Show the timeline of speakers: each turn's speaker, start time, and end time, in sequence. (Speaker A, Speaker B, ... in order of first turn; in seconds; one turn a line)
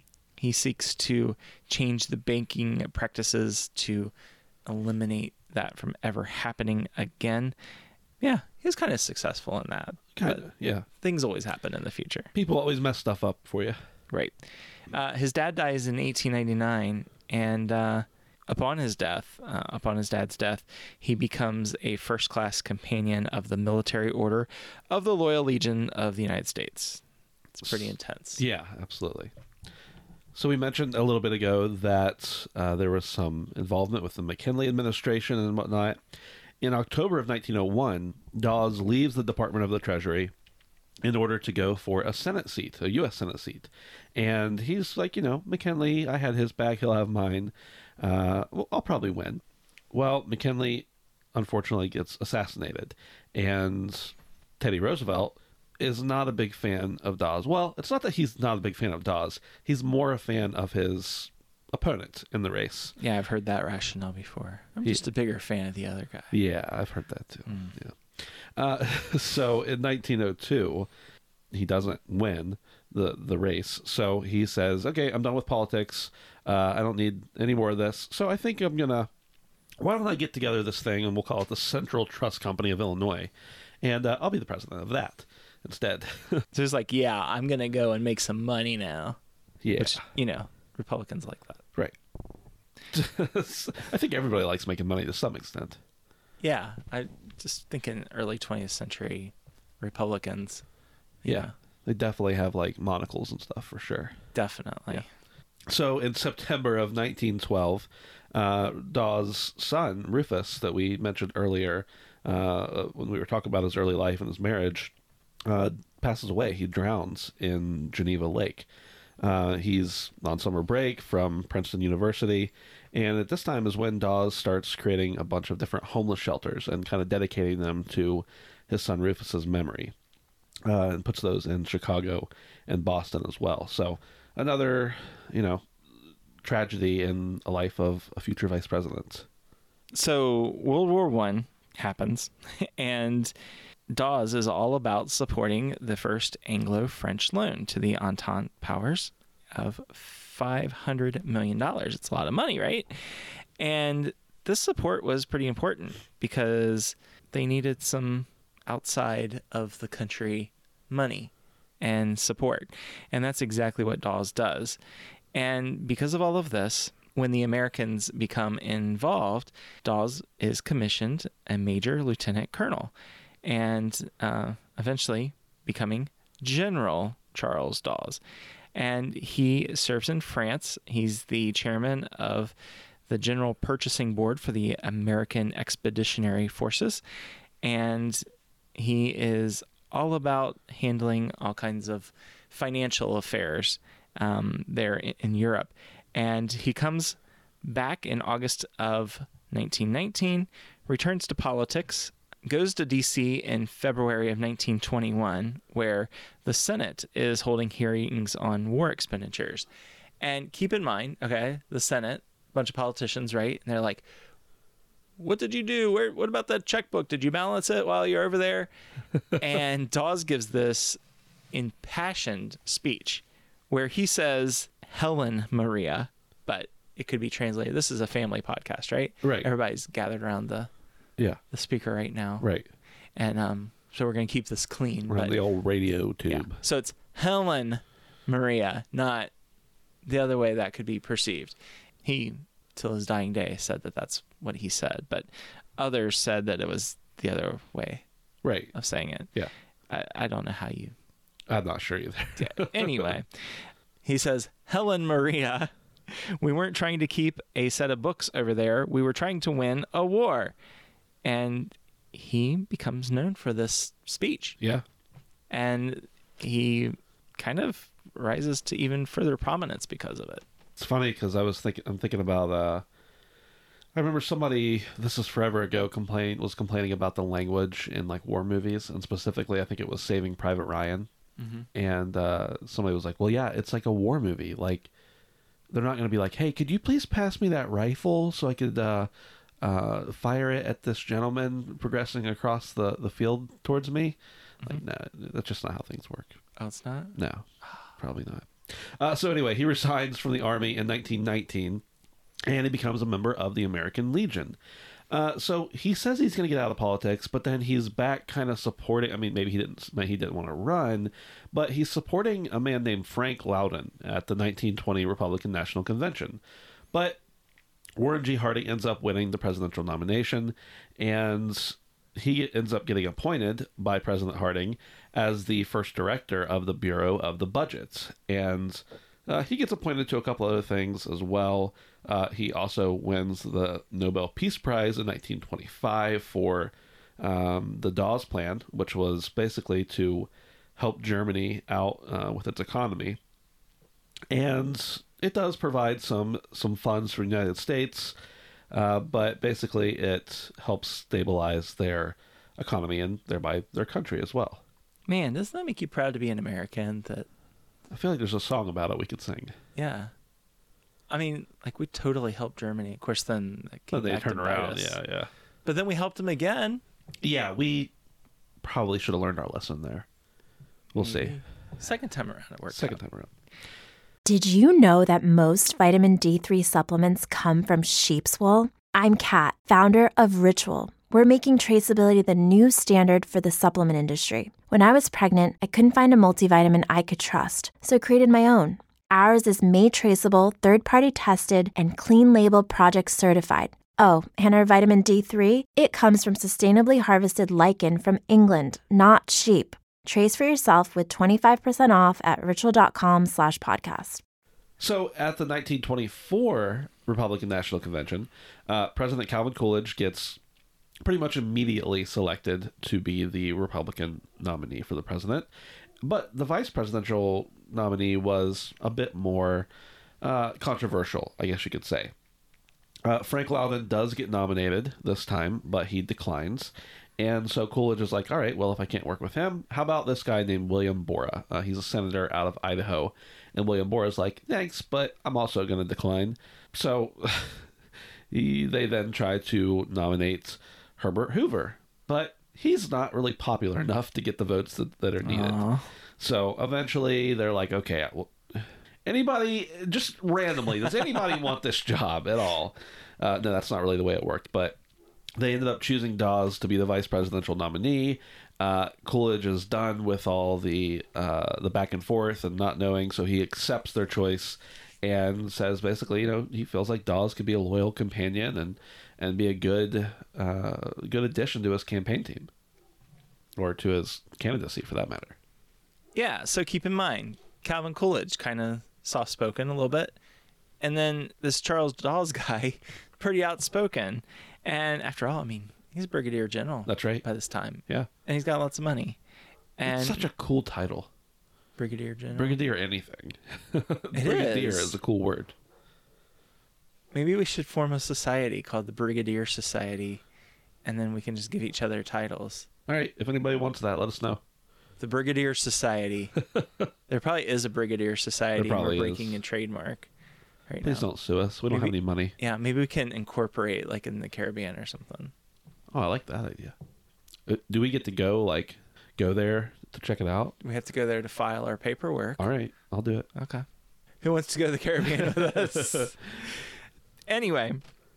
Speaker A: 0.4-4.1
Speaker A: 4.7-7.5
Speaker A: 8.2-12.3
Speaker B: 10.2-10.9
Speaker B: 12.3-13.8
Speaker A: 14.9-27.0
Speaker A: 27.6-28.4
Speaker B: 28.4-29.3
Speaker B: 30.3-40.3
Speaker B: 41.0-62.9
Speaker A: 63.0-66.4
Speaker B: 66.3-70.9
Speaker A: 67.5-67.8
Speaker B: 71.5-79.1
Speaker B: 79.8-86.4
Speaker A: 86.5-89.2
Speaker B: 89.6-90.0
Speaker A: 89.8-91.6
Speaker B: 92.9-95.8
Speaker A: 96.4-100.7
Speaker A: 101.2-101.5
Speaker B: 101.2-104.2
Speaker A: 104.3-105.1
Speaker B: 105.7-114.9
Speaker B: 115.5-118.7
Speaker B: 119.2-129.9
Speaker B: 130.7-135.7
Speaker B: 136.4-139.3
Speaker A: 139.9-143.3
Speaker A: 143.9-164.8
Speaker A: 165.3-172.9
Speaker A: 173.4-178.2
Speaker A: 178.8-182.5
Speaker A: 183.1-187.0
Speaker A: 187.6-209.7
Speaker A: 210.2-214.1
Speaker A: 215.2-218.7
Speaker A: 219.3-221.0
Speaker A: 221.5-230.7
Speaker B: 229.2-229.5
Speaker A: 231.5-232.5
Speaker B: 232.4-232.7
Speaker A: 233.2-235.4
Speaker B: 235.1-236.6
Speaker A: 236.3-239.3
Speaker A: 240.1-248.1
Speaker B: 248.4-248.7
Speaker A: 248.7-249.3
Speaker A: 249.9-250.9
Speaker B: 251.5-253.1
Speaker A: 252.4-260.6
Speaker A: 261.2-264.6
Speaker B: 264.6-264.9
Speaker A: 265.5-270.4
Speaker B: 270.8-272.9
Speaker B: 273.9-281.1
Speaker A: 281.4-281.7
Speaker B: 281.7-284.9
Speaker B: 285.7-289.1
Speaker B: 289.6-296.4
Speaker A: 296.6-297.2
Speaker B: 297.1-301.8
Speaker B: 302.5-304.6
Speaker B: 305.1-316.4
Speaker B: 316.9-317.2
Speaker B: 318.0-343.2
Speaker B: 344.3-348.1
Speaker B: 348.7-354.6
Speaker A: 355.1-357.3
Speaker B: 357.9-359.5
Speaker A: 359.8-360.1
Speaker A: 361.1-365.0
Speaker B: 363.9-365.3
Speaker A: 365.6-366.8
Speaker B: 367.2-367.9
Speaker B: 368.6-370.1
Speaker B: 370.9-371.4
Speaker A: 371.0-373.0
Speaker B: 372.7-373.3
Speaker C: 374.2-404.2
Speaker B: 404.8-410.4
Speaker B: 411.0-415.5
Speaker B: 416.0-419.7
Speaker B: 420.2-422.1
Speaker B: 423.1-437.7
Speaker B: 438.3-445.6
Speaker A: 445.2-445.9
Speaker B: 446.2-454.8
Speaker B: 455.4-472.5
Speaker B: 473.6-475.4
Speaker A: 476.1-480.1
Speaker A: 480.8-489.2
Speaker B: 486.9-487.2
Speaker A: 489.8-490.3
Speaker B: 489.9-491.1
Speaker A: 491.8-492.6
Speaker B: 492.4-495.5
Speaker A: 494.1-495.0
Speaker A: 497.1-500.2
Speaker A: 500.9-502.7
Speaker B: 502.9-504.4
Speaker A: 505.0-506.4
Speaker B: 506.5-506.9
Speaker A: 507.1-510.1
Speaker B: 508.6-509.4
Speaker A: 510.7-511.1
Speaker B: 510.8-512.4
Speaker A: 511.7-515.3
Speaker B: 515.9-516.8
Speaker B: 517.5-520.5
Speaker A: 520.6-522.5
Speaker B: 522.4-523.3
Speaker A: 523.4-523.6
Speaker A: 524.2-527.8
Speaker B: 525.2-526.1